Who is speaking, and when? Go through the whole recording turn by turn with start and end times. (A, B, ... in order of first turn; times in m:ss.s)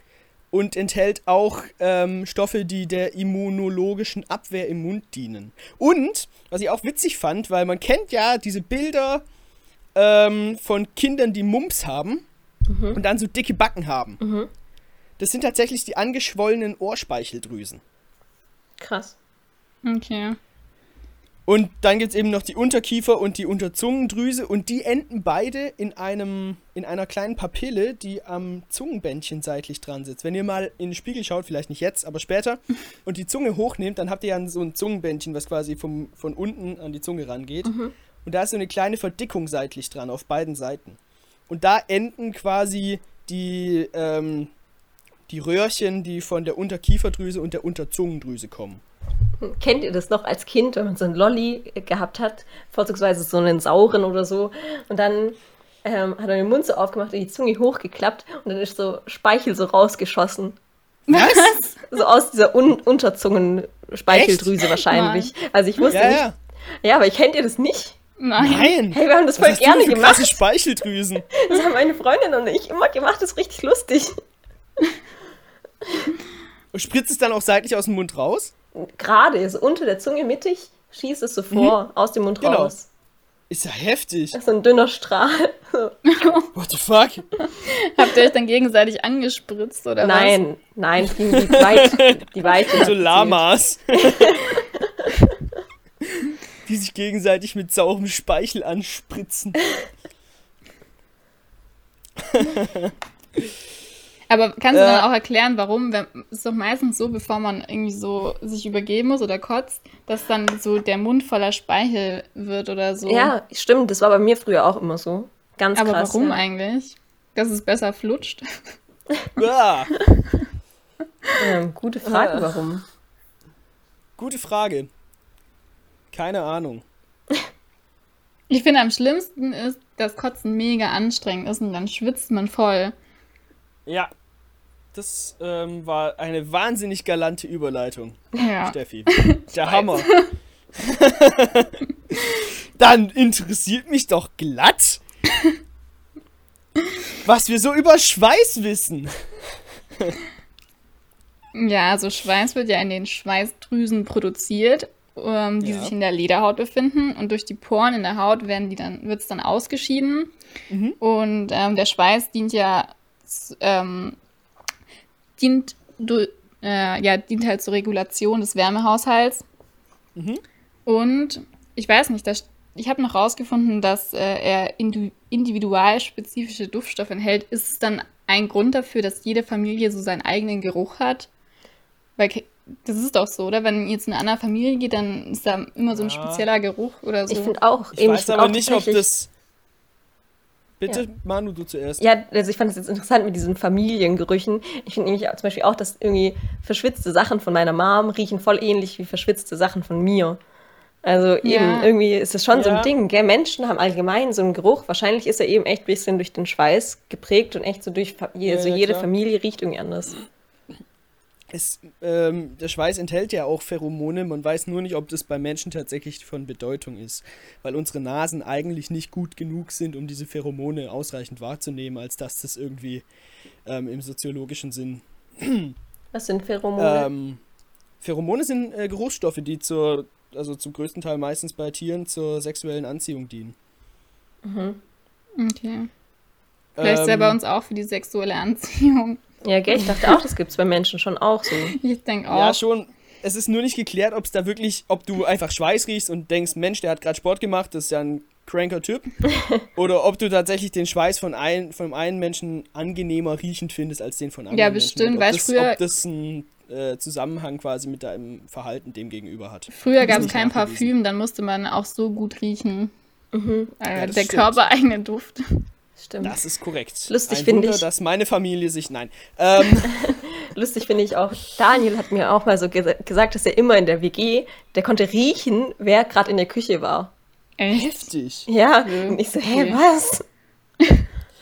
0:00.5-0:09.2 A
0:09.9-0:12.2 A
0:12.7-0:13.0 B
0:12.9-0:14.2 A
0:14.2-0:14.5 B
0:15.2-0:17.8 A
0:18.8-0:19.2 B
0:19.8-0:20.4 C
0:21.4-0:37.7 A
0:37.6-0:37.9 B
0:38.2-0:44.5 A
0:45.3-0:48.8 A
0:49.4-1:00.6 B
1:01.1-1:01.8 C
1:01.1-1:01.5 A
1:01.9-1:06.2 B
1:04.1-1:04.6 A
1:04.8-1:05.3 C
1:05.9-1:06.4 A
1:06.8-1:08.0 B
1:08.2-1:08.7 C
1:08.4-1:11.3 A
1:08.9-1:10.4 B
1:11.3-1:14.2 B
1:16.7-1:18.5 A
1:18.7-1:22.9 B
1:22.4-1:22.7 A
1:23.5-1:24.4 A
1:24.3-1:26.0 B
1:26.1-1:26.5 C
1:26.5-1:27.2 A
1:27.6-1:30.4 C
1:30.0-1:33.4 B
1:31.1-1:34.6 A
1:33.9-1:35.1 B
1:36.0-1:39.6 A
1:42.2-1:42.9 A
1:44.3-1:53.3 C
1:44.7-1:45.1 A
1:53.0-1:56.4 B
1:55.8-1:58.4 C
1:59.4-2:00.0 A
2:01.4-2:02.8 B
2:02.0-2:02.6 A
2:04.2-2:04.9 A
2:06.1-2:06.8 A
2:08.5-2:12.9 C
2:13.8-2:14.1 A
2:14.9-2:20.1 A
2:18.4-2:20.3 C
2:20.8-2:21.8 A
2:22.8-2:25.0 A
2:27.2-2:29.1 A
2:31.5-2:40.3 C
2:35.6-2:35.9 A
2:40.7-2:41.0 A
2:41.0-2:44.2 C
2:45.4-2:49.4 C
2:50.1-2:50.4 A
2:50.8-3:01.3 C
3:02.2-3:07.5 C
3:05.9-3:06.4 A
3:07.3-3:09.1 B
3:07.9-3:09.3 A
3:10.8-3:12.0 A
3:12.0-3:20.4 B
3:21.0-3:30.2 B
3:21.4-3:21.9 C
3:22.5-3:22.9 A
3:28.4-3:29.1 A
3:31.5-3:43.0 A
3:43.6-3:45.8 A
3:46.1-3:47.1 B
3:46.8-3:47.4 A
3:48.0-3:53.6 A
3:54.4-3:54.8 B
3:55.4-3:55.9 C
3:56.8-3:57.4 A
3:56.8-4:00.2 C
3:59.4-4:01.8 B
4:01.7-4:02.6 C
4:02.3-4:09.0 A
4:09.3-4:09.6 B
4:09.7-4:20.9 A
4:14.5-4:15.8 C
4:19.7-4:22.9 C
4:20.0-4:20.3 B
4:23.3-4:23.7 B
4:23.8-4:25.6 C
4:23.9-4:24.6 A
4:26.0-4:26.4 B
4:26.2-4:30.1 A
4:27.1-4:27.8 B
4:29.8-4:37.1 B
4:37.6-4:38.1 C
4:37.7-4:38.5 A
4:38.5-4:40.2 B
4:38.8-4:39.8 C